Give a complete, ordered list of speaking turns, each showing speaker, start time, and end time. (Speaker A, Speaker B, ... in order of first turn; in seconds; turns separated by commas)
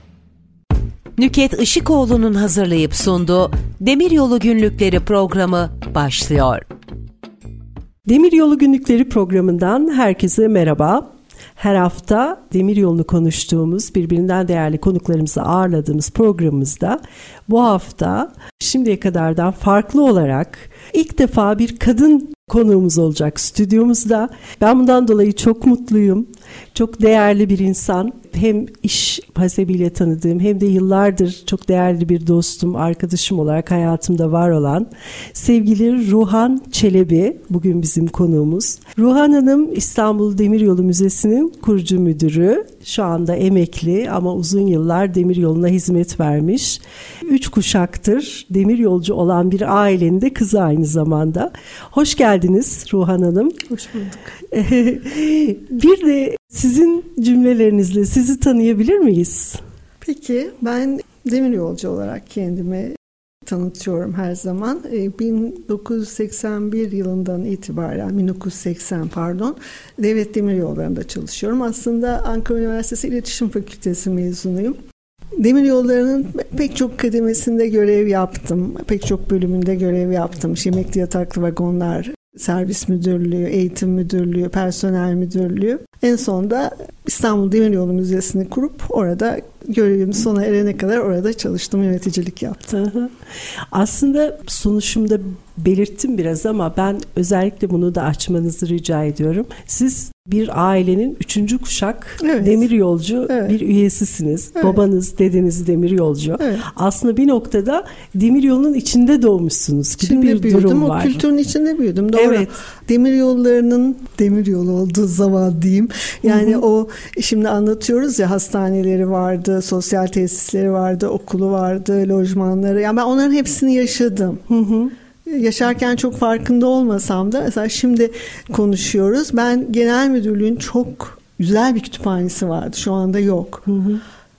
Speaker A: 1.2-6.7, Speaker B: 8.1-53.6, Speaker C: 53.7-54.3, Speaker B: 54.5-59.6, Speaker C: 60.0-74.8, Speaker C: 75.4-92.7, Speaker B: 92.7-93.1, Speaker B: 93.7-111.2, Speaker C: 102.2-102.7, Speaker C: 103.3-103.6, Speaker C: 106.4-106.7, Speaker C: 110.0-124.4, Speaker B: 112.2-112.5, Speaker B: 116.2-116.6, Speaker B: 124.5-124.9, Speaker C: 125.2-133.7, Speaker B: 133.7-134.0